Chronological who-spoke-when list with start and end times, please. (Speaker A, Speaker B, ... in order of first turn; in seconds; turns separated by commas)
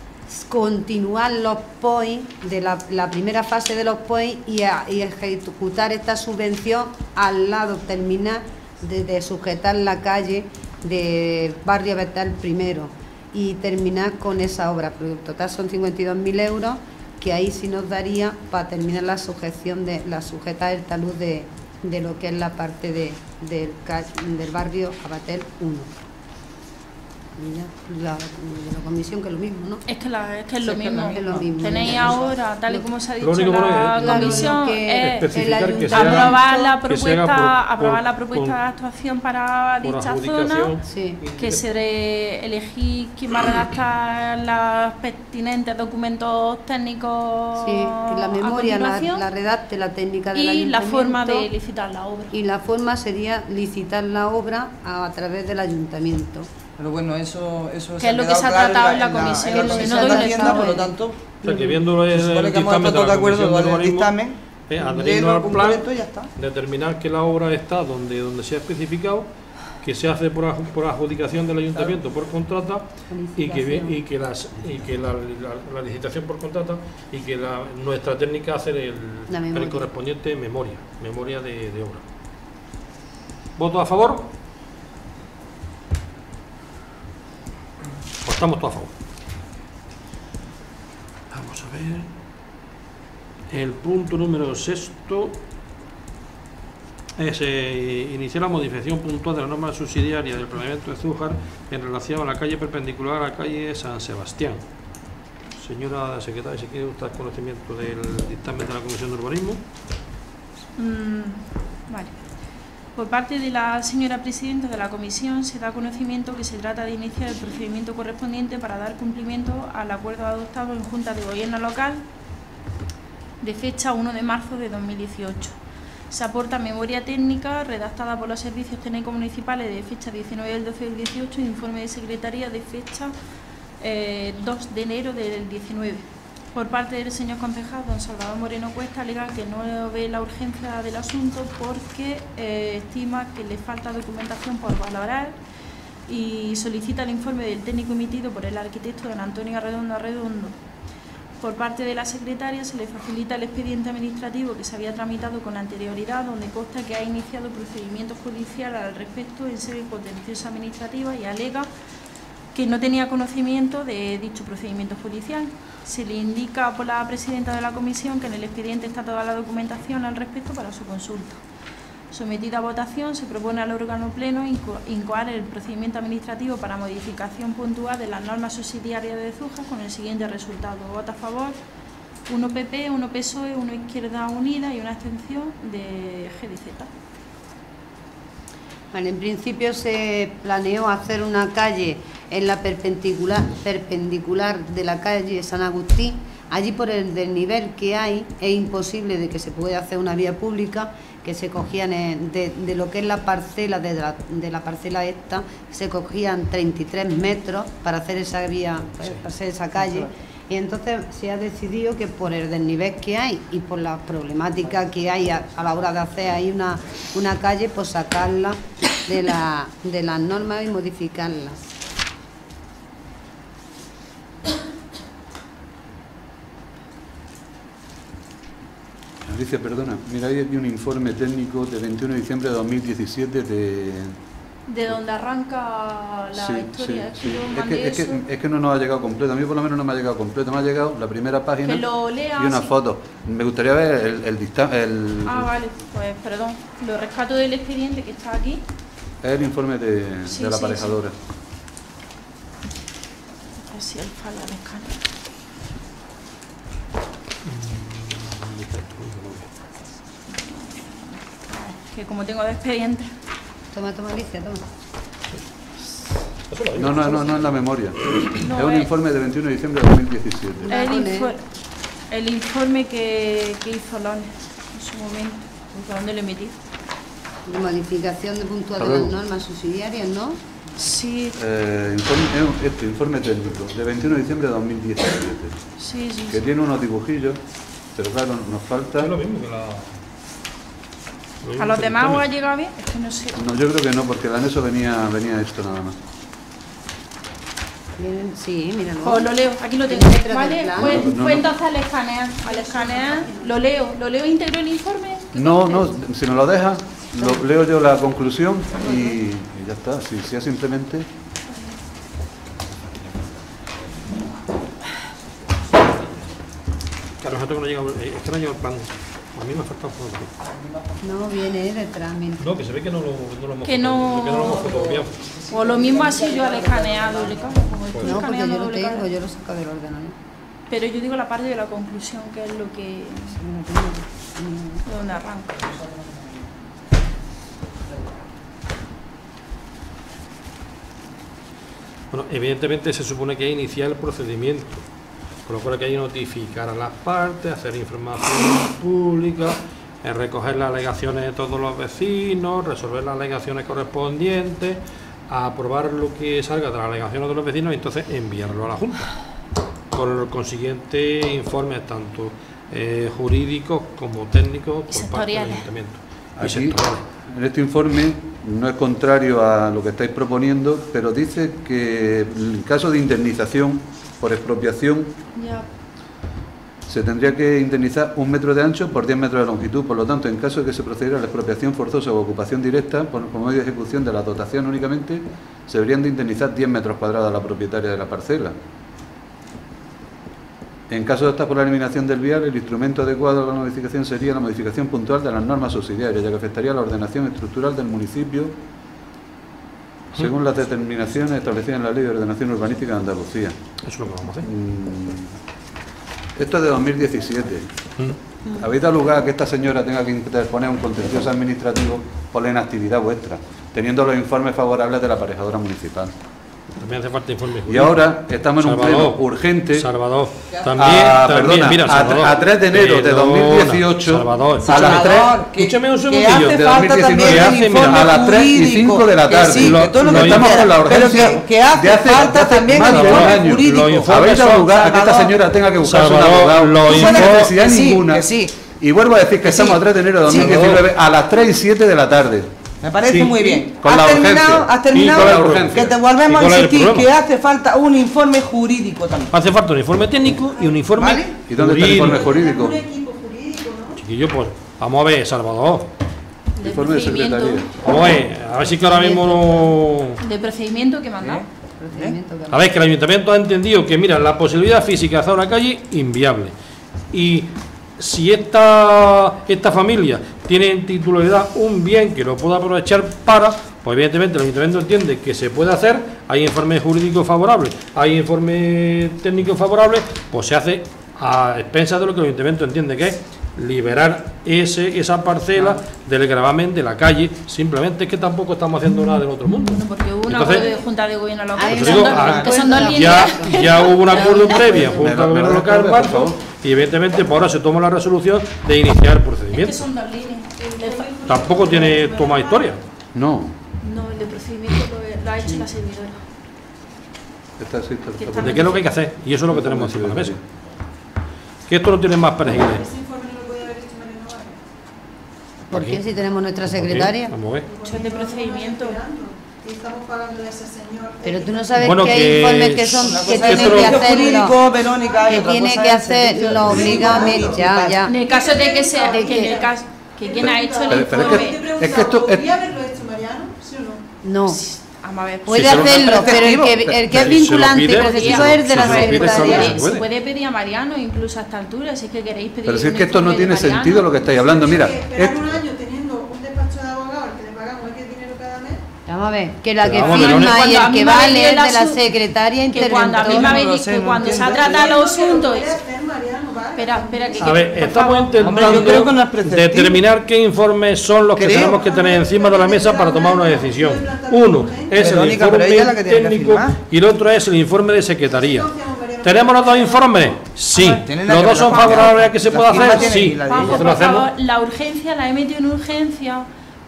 Speaker A: 0.3-25.9, Speaker A: 27.4-29.8, Speaker B: 29.9-35.3, Speaker C: 30.7-32.3, Speaker A: 31.1-32.8, Speaker D: 33.2-38.6, Speaker A: 34.0-36.3, Speaker B: 35.8-40.7, Speaker C: 36.4-36.7, Speaker D: 39.8-41.6, Speaker A: 40.8-41.2, Speaker B: 41.4-49.2, Speaker A: 47.5-51.5, Speaker B: 50.3-52.4, Speaker A: 52.3-56.5, Speaker C: 56.8-61.3, Speaker B: 58.0-60.8, Speaker A: 59.5-60.9, Speaker D: 61.4-64.1, Speaker A: 61.5-61.8, Speaker C: 62.0-66.3, Speaker D: 64.7-69.3, Speaker D: 69.8-82.0, Speaker A: 73.1-74.0, Speaker A: 79.3-79.9, Speaker D: 83.6-84.3, Speaker D: 88.2-88.9, Speaker D: 91.3-92.1, Speaker D: 93.5-95.4, Speaker D: 97.2-104.6, Speaker D: 105.6-109.6, Speaker B: 110.8-112.2, Speaker B: 113.0-122.0, Speaker B: 123.4-125.5, Speaker B: 126.1-133.1, Speaker B: 133.8-145.3, Speaker B: 146.1-150.5, Speaker B: 151.4-161.7, Speaker B: 162.5-171.4, Speaker B: 172.1-181.6, Speaker B: 182.3-186.9, Speaker A: 188.9-221.6, Speaker E: 229.2-234.1, Speaker B: 234.7-238.2, Speaker E: 236.3-245.5, Speaker B: 241.6-242.7, Speaker B: 245.2-248.6, Speaker E: 249.2-251.1, Speaker B: 250.3-251.0, Speaker B: 253.6-255.0, Speaker D: 257.4-259.5, Speaker B: 260.3-263.1, Speaker A: 263.7-264.6, Speaker D: 266.5-267.5, Speaker E: 266.7-270.7, Speaker B: 268.1-268.9, Speaker A: 270.6-271.3, Speaker B: 270.7-271.4, Speaker B: 272.1-276.5, Speaker A: 277.4-280.4, Speaker E: 278.8-279.1, Speaker B: 280.8-281.4, Speaker E: 281.4-285.6, Speaker B: 285.8-286.4, Speaker E: 286.3-287.4, Speaker E: 287.9-289.1, Speaker D: 289.0-289.9, Speaker D: 291.4-292.2, Speaker B: 291.6-293.4, Speaker E: 293.4-295.9, Speaker A: 298.0-299.3, Speaker B: 299.0-305.9, Speaker A: 299.9-301.1, Speaker E: 300.7-301.5, Speaker F: 302.4-303.5, Speaker E: 305.3-311.1, Speaker A: 308.8-309.2, Speaker D: 317.2-320.3, Speaker A: 321.0-322.5, Speaker D: 322.4-325.2, Speaker B: 323.6-324.7, Speaker C: 324.6-327.6, Speaker B: 325.5-329.0, Speaker D: 327.9-328.2, Speaker A: 328.0-330.1, Speaker B: 330.7-333.4, Speaker A: 333.3-334.8, Speaker B: 334.8-335.6, Speaker C: 335.8-336.2, Speaker D: 342.1-344.8, Speaker D: 345.4-359.1, Speaker D: 359.9-367.0, Speaker B: 364.9-365.7, Speaker E: 366.4-375.1, Speaker B: 375.3-375.7, Speaker E: 376.9-388.5, Speaker E: 390.9-398.5, Speaker E: 400.1-403.6, Speaker D: 403.8-404.5, Speaker E: 404.4-405.4, Speaker E: 406.4-407.7, Speaker E: 408.5-416.1, Speaker D: 416.7-418.0, Speaker E: 417.7-419.9, Speaker D: 418.6-428.2, Speaker C: 420.5-420.9, Speaker E: 420.8-425.4, Speaker C: 424.6-435.3, Speaker E: 426.5-442.5, Speaker D: 429.4-431.2, Speaker D: 432.6-434.8, Speaker D: 435.8-437.5, Speaker C: 436.8-438.5, Speaker C: 439.4-440.8, Speaker D: 440.3-440.8, Speaker C: 442.8-449.3, Speaker D: 443.1-443.5, Speaker E: 443.8-445.9, Speaker D: 444.9-447.1, Speaker D: 449.3-452.2, Speaker C: 450.9-451.3, Speaker E: 451.4-452.8, Speaker F: 451.9-454.0, Speaker D: 454.0-455.9, Speaker B: 456.6-457.7, Speaker E: 456.6-457.7, Speaker D: 457.8-460.2, Speaker A: 458.7-459.8, Speaker B: 460.2-461.4, Speaker C: 461.2-462.1, Speaker A: 461.8-462.6, Speaker D: 462.5-466.5, Speaker D: 467.1-490.7, Speaker B: 489.7-494.4, Speaker A: 491.6-494.9, Speaker D: 491.7-499.9, Speaker E: 494.9-496.4, Speaker B: 499.5-501.7, Speaker F: 500.6-502.8, Speaker D: 501.3-502.8, Speaker E: 503.1-503.6, Speaker B: 503.8-506.2, Speaker E: 507.6-508.8, Speaker B: 508.2-508.9, Speaker D: 508.4-510.4, Speaker E: 509.5-510.4, Speaker D: 511.7-512.9, Speaker F: 512.6-514.7, Speaker A: 515.7-517.4, Speaker D: 515.7-516.0, Speaker D: 516.7-517.7, Speaker F: 517.6-522.1, Speaker B: 517.8-519.0, Speaker A: 521.2-524.6, Speaker D: 521.8-524.0, Speaker C: 523.0-528.0, Speaker F: 524.4-525.4, Speaker A: 525.2-528.1, Speaker F: 526.5-534.0, Speaker B: 528.0-531.6, Speaker A: 529.1-529.6, Speaker E: 530.9-532.5, Speaker A: 534.2-534.6, Speaker B: 534.5-536.3, Speaker A: 535.5-539.8, Speaker D: 535.5-536.0, Speaker C: 535.7-536.8, Speaker E: 536.7-537.0, Speaker D: 537.0-540.0, Speaker B: 537.9-544.1, Speaker E: 542.6-545.6, Speaker F: 544.2-548.8, Speaker A: 549.1-553.7, Speaker D: 549.8-550.8, Speaker B: 550.0-552.0, Speaker B: 552.7-555.8, Speaker C: 553.1-555.0, Speaker F: 554.6-558.0, Speaker B: 556.8-558.3, Speaker D: 557.4-568.7, Speaker C: 558.4-560.0, Speaker C: 561.4-561.7, Speaker F: 561.5-565.1, Speaker C: 565.0-566.8, Speaker F: 568.3-570.1, Speaker D: 569.2-574.3, Speaker B: 570.7-576.5, Speaker C: 571.0-573.8